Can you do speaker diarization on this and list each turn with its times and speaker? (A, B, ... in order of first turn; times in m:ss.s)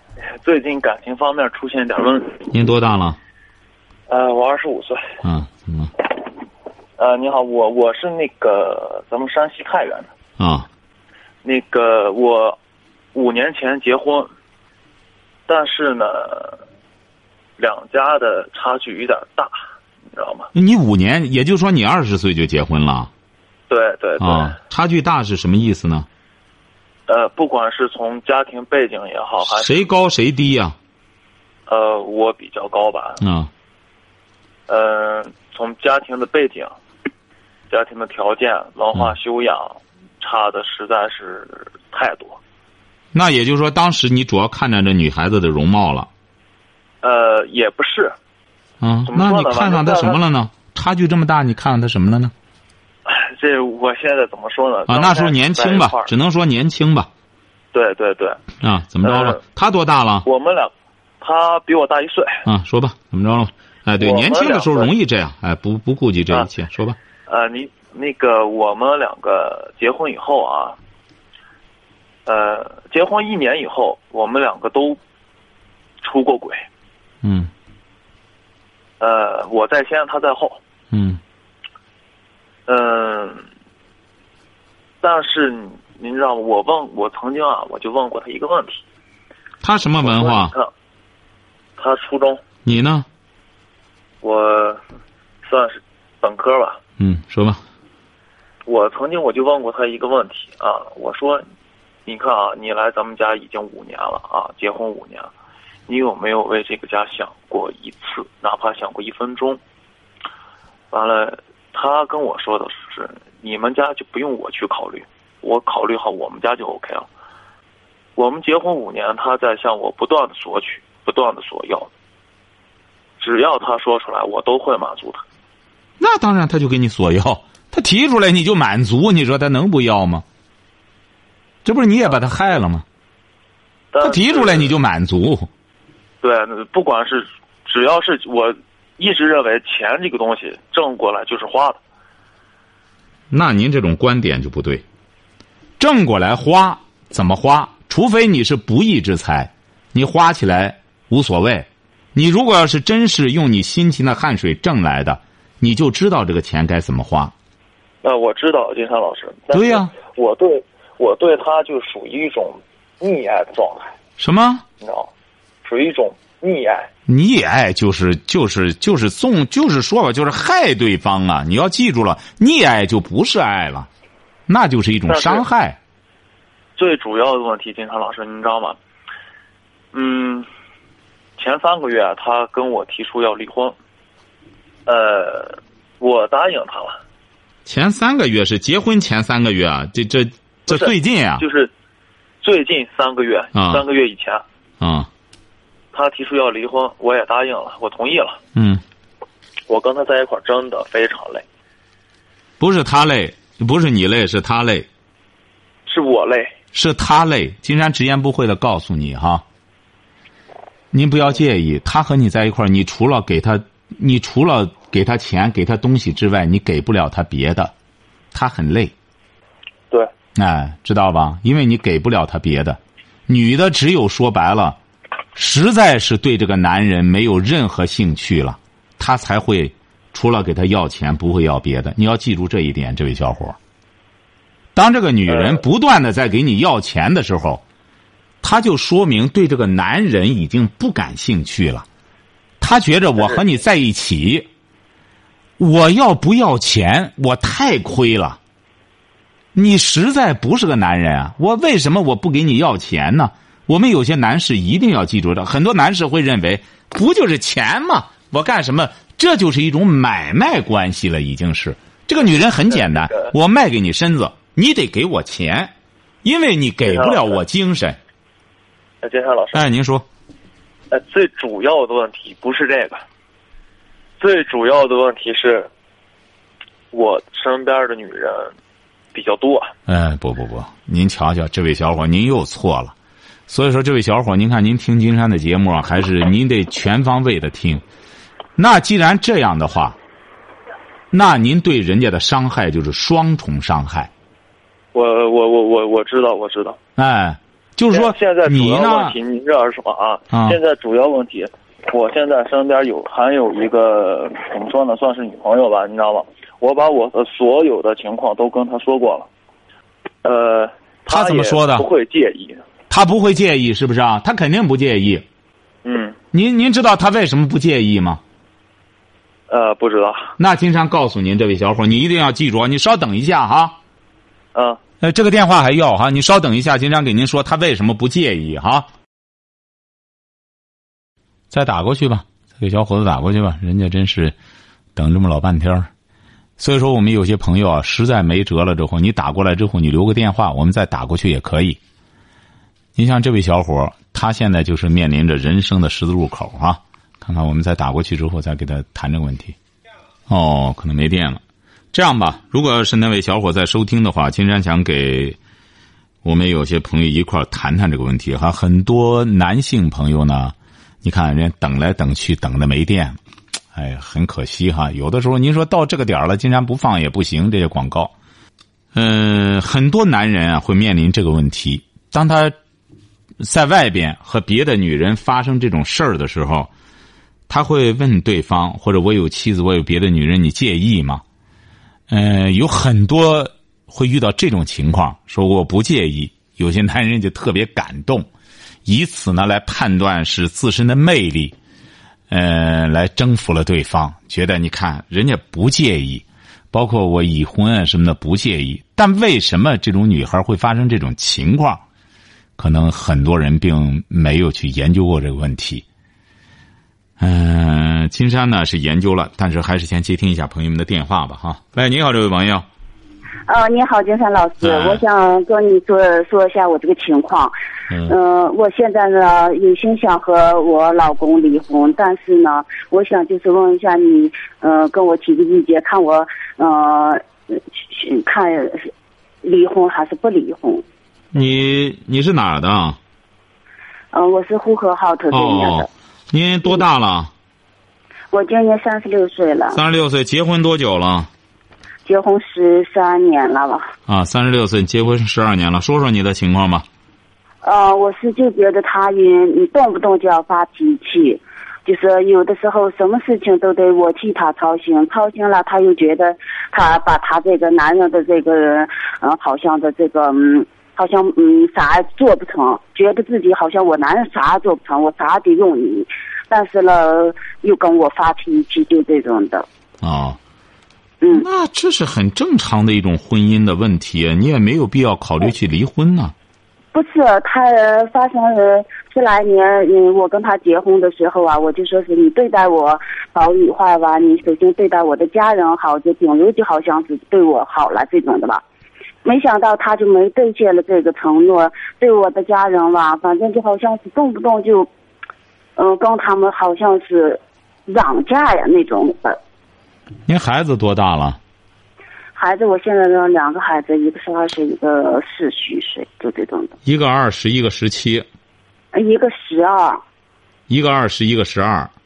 0:00.4-0:02.5 A
0:02.5-0:03.2 B
0:04.1-0:05.1 A
0:05.2-0:05.9 B
0:07.0-0:10.1 A
0:10.4-0:10.7 B
0:11.4-0:12.6 A
0:13.1-0:14.3 A
0:15.5-0:16.6 A
0:17.6-0:19.5 A
0:20.1-0:20.5 A
0:20.5-0:23.1 B
0:23.7-0:24.6 A
0:24.2-0:26.1 B
0:27.1-0:29.9 A
0:29.4-0:30.8 B
0:31.7-0:33.2 A
0:33.2-0:33.5 B
0:34.7-0:36.7 A
0:37.7-0:42.4 A
0:43.1-0:46.1 B
0:47.0-0:48.1 A
0:48.8-0:52.3 B
0:49.1-0:50.2 A
0:53.0-0:56.1 A
0:54.9-0:57.1 B
0:57.7-0:58.4 A
0:58.6-1:00.2 B
0:59.0-0:59.4 A
1:00.2-1:02.4 A
1:02.4-1:07.0 B
1:04.0-1:04.9 A
1:07.3-1:10.8 A
1:12.2-1:15.0 A
1:16.0-1:16.6 A
1:17.2-1:17.5 B
1:19.0-1:20.6 A
1:20.9-1:21.2 B
1:22.7-1:23.4 A
1:25.0-1:28.8 A
1:29.6-1:30.5 B
1:30.0-1:30.7 A
1:31.8-1:32.4 A
1:32.6-1:33.0 B
1:34.2-1:34.8 A
1:35.4-1:36.8 A
1:37.0-1:37.6 B
1:38.6-1:41.4 A
1:42.0-1:45.3 A
1:45.9-1:49.6 A
1:50.9-1:57.1 A
1:58.2-2:01.9 A
2:03.2-2:05.2 A
2:06.0-2:10.2 B
2:11.6-2:12.8 B
2:13.9-2:14.7 A
2:14.0-2:15.5 B
2:16.2-2:21.8 A
2:23.3-2:24.8 B
2:25.8-2:37.3 B
2:38.0-2:43.9 A
2:39.5-2:39.9 B
2:44.2-2:44.6 B
2:44.8-2:45.1 A
2:45.6-2:46.9 A
2:47.1-2:53.9 B
2:54.5-2:55.8 B
2:55.1-2:55.4 A
2:56.8-2:58.8 A
2:59.9-3:00.4 A
3:01.4-3:03.8 A
3:04.8-3:07.0 A
3:07.6-3:11.4 B
3:10.7-3:11.7 A
3:12.4-3:14.4 A
3:13.5-3:13.8 B
3:14.8-3:15.1 B
3:15.9-3:18.4 A
3:18.5-3:18.8 B
3:19.7-3:21.4 A
3:22.6-3:24.9 B
3:25.9-3:26.5 A
3:26.7-3:29.4 B
3:30.9-3:37.7 B
3:38.3-3:38.9 B
3:40.3-3:44.8 B
3:45.3-3:53.6 B
3:54.7-3:57.6 B
3:55.3-3:55.6 A
3:58.4-4:01.8 B
4:02.6-4:04.5 B
4:05.6-4:08.4 B
4:09.5-4:25.7 B
4:22.7-4:23.3 A
4:26.2-4:28.0 B
4:26.9-4:27.4 A
4:29.0-4:29.6 A
4:29.5-4:30.0 B
4:30.9-4:33.0 A
4:34.2-4:35.7 A
4:36.9-4:38.5 A
4:39.1-4:39.7 A
4:39.9-4:42.9 B
4:43.5-4:47.8 B
4:48.6-4:50.0 B
4:51.1-4:54.1 B
4:54.9-4:56.8 A
4:57.0-4:59.1 B
4:57.9-5:09.3 A
5:00.3-5:00.6 B
5:10.2-5:12.6 A
5:11.1-5:11.8 B
5:12.9-5:15.2 B
5:15.8-5:16.2 A
5:16.3-5:18.2 B
5:19.5-5:20.3 A
5:20.4-5:23.8 B
5:25.0-5:28.9 B
5:31.5-5:34.3 B
5:35.0-5:35.9 B
5:36.6-5:41.8 B
5:43.0-5:49.6 B
5:50.3-5:51.4 B
5:51.9-5:55.4 B
5:56.2-6:03.2 B
6:03.7-6:08.1 B
6:08.9-6:12.6 B
6:13.4-6:16.7 B
6:17.5-6:21.2 B
6:22.1-6:28.3 B
6:28.8-6:31.5 B
6:32.3-6:41.8 B
6:42.6-6:45.8 B
6:47.2-6:52.6 B
6:53.5-6:57.5 C
6:54.6-6:55.0 B
6:58.0-7:08.9 C
7:09.4-7:10.8 C
7:11.3-7:13.0 B
7:14.1-7:15.9 C
7:15.3-7:17.3 B
7:18.3-7:19.8 C
7:19.7-7:21.3 B
7:22.0-7:23.9 C
7:24.1-7:26.8 B
7:27.6-7:49.7 C
7:50.0-7:50.4 B
7:51.2-7:51.4 C
7:51.3-7:56.3 B
7:56.9-8:08.6 C
8:09.2-8:14.9 C
8:15.8-8:19.4 C
8:20.3-8:21.4 B
8:22.4-8:26.7 C
8:26.8-8:28.2 B
8:28.9-8:30.0 C
8:30.7-8:31.9 B